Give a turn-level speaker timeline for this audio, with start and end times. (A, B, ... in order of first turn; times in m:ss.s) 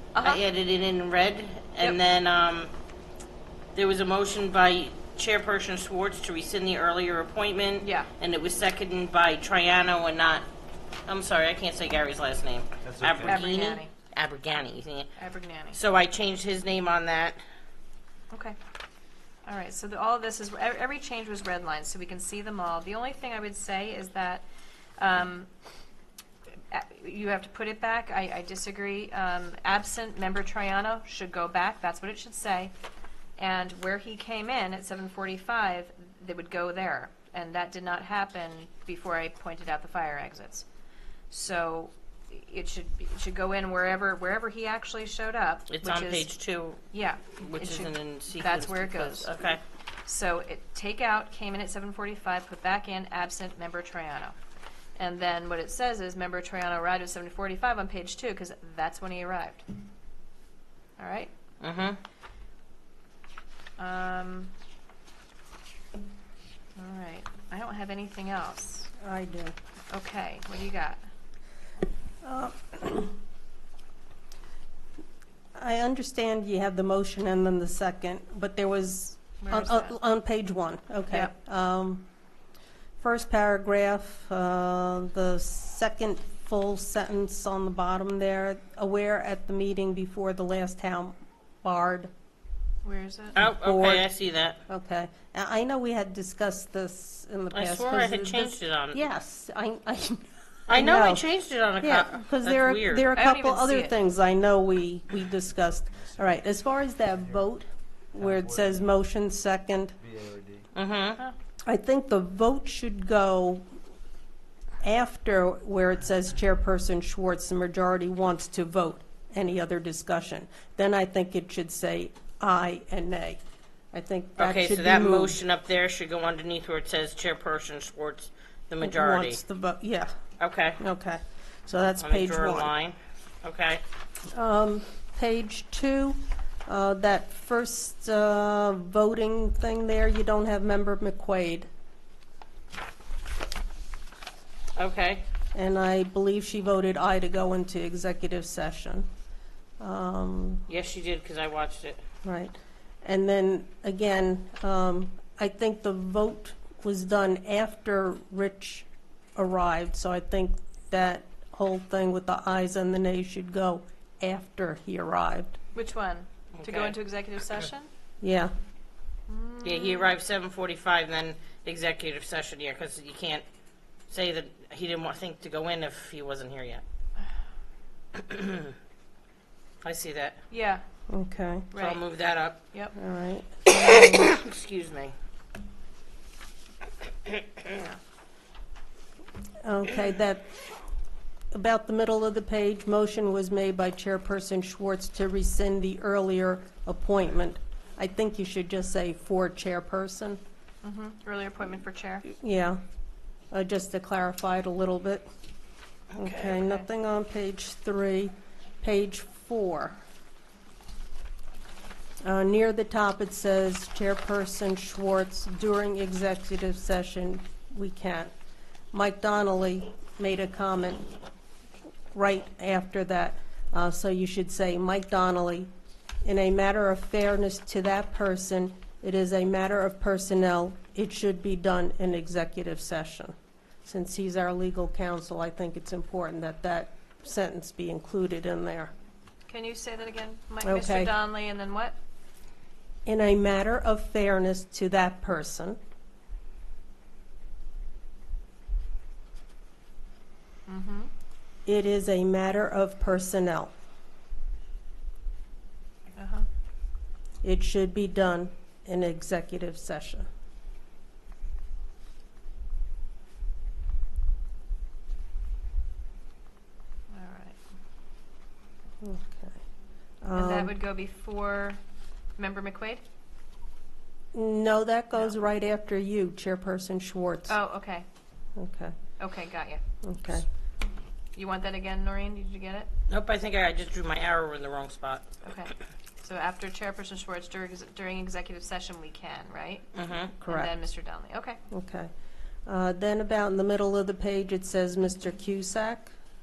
0:00.2-0:00.4 A
0:00.2-0:02.7 B
0:03.8-0:10.4 B
0:07.8-0:08.1 A
0:11.1-0:15.1 B
0:12.8-0:13.4 C
0:13.2-0:13.9 A
0:15.2-0:15.8 A
0:15.7-0:17.4 B
0:19.5-0:24.4 A
0:25.0-0:25.5 A
0:26.7-0:32.7 A
0:33.4-0:40.6 A
0:41.3-0:46.3 A
0:45.7-0:46.8 B
0:46.9-0:49.3 A
0:47.4-0:49.6 B
0:50.1-0:54.3 A
0:55.0-0:59.6 A
1:01.0-1:01.3 A
1:01.6-1:02.0 B
1:03.8-1:04.5 A
1:06.8-1:08.9 A
1:09.0-1:09.6 D
1:09.9-1:11.0 A
1:12.2-1:13.2 D
1:15.6-1:22.1 D
1:19.4-1:20.0 A
1:21.1-1:21.4 A
1:23.0-1:32.1 D
1:32.8-1:33.4 A
1:33.4-1:34.6 B
1:33.4-1:34.1 D
1:34.7-1:41.3 D
1:37.5-1:39.0 B
1:40.7-1:43.2 B
1:41.8-1:49.9 D
1:43.1-1:44.0 A
1:45.9-1:46.4 C
1:48.2-1:48.8 C
1:50.0-1:50.6 C
1:50.8-1:51.2 B
1:51.7-1:53.6 D
1:54.8-2:03.4 D
2:03.9-2:05.4 D
2:04.4-2:09.4 B
2:08.8-2:10.1 D
2:10.4-2:10.8 B
2:10.8-2:12.7 D
2:12.0-2:13.8 B
2:14.3-2:21.7 D
2:24.8-2:25.2 B
2:25.5-2:29.1 D
2:29.8-2:30.6 D
2:30.7-2:32.0 B
2:32.2-2:45.6 D
2:45.8-2:47.9 A
2:46.5-2:47.0 B
2:48.2-2:48.5 D
2:49.3-2:50.1 A
2:49.6-2:53.4 B
2:54.1-2:56.8 B
2:58.2-2:58.7 B
2:59.8-3:00.4 B
3:00.5-3:00.8 A
3:01.1-3:01.7 D
3:01.7-3:02.0 A
3:01.8-3:02.6 B
3:03.0-3:04.3 D
3:03.7-3:05.1 B
3:07.3-3:07.8 B
3:09.6-3:10.5 D
3:11.5-3:20.4 D
3:20.8-3:22.3 A
3:22.3-3:22.8 D
3:23.5-3:25.3 D
3:26.2-3:26.5 B
3:26.2-3:30.0 D
3:26.5-3:26.8 A
3:32.2-3:38.3 D
3:38.9-3:41.1 D
3:42.1-3:45.7 D
3:46.2-3:53.3 D
3:53.8-3:58.9 D
3:59.5-4:02.0 A
4:00.6-4:01.1 D
4:03.1-4:05.8 D
4:10.7-4:11.1 A
4:11.7-4:13.7 D
4:16.2-4:16.5 A
4:17.4-4:20.3 D
4:27.1-4:27.6 A
4:29.0-4:29.6 D
4:30.2-4:30.7 D
4:30.4-4:31.8 A
4:32.4-4:33.0 A
4:34.3-4:37.6 D
4:37.5-4:38.1 A
4:38.6-4:39.0 D
4:39.2-4:39.8 A
4:40.0-4:40.5 D
4:41.4-4:42.9 A
4:43.1-4:45.3 B
4:45.4-4:45.7 A
4:46.2-4:49.9 A
4:50.0-4:50.4 B
4:50.4-4:50.7 D
4:50.4-4:51.6 A
4:51.7-4:52.1 D
4:52.7-4:56.1 D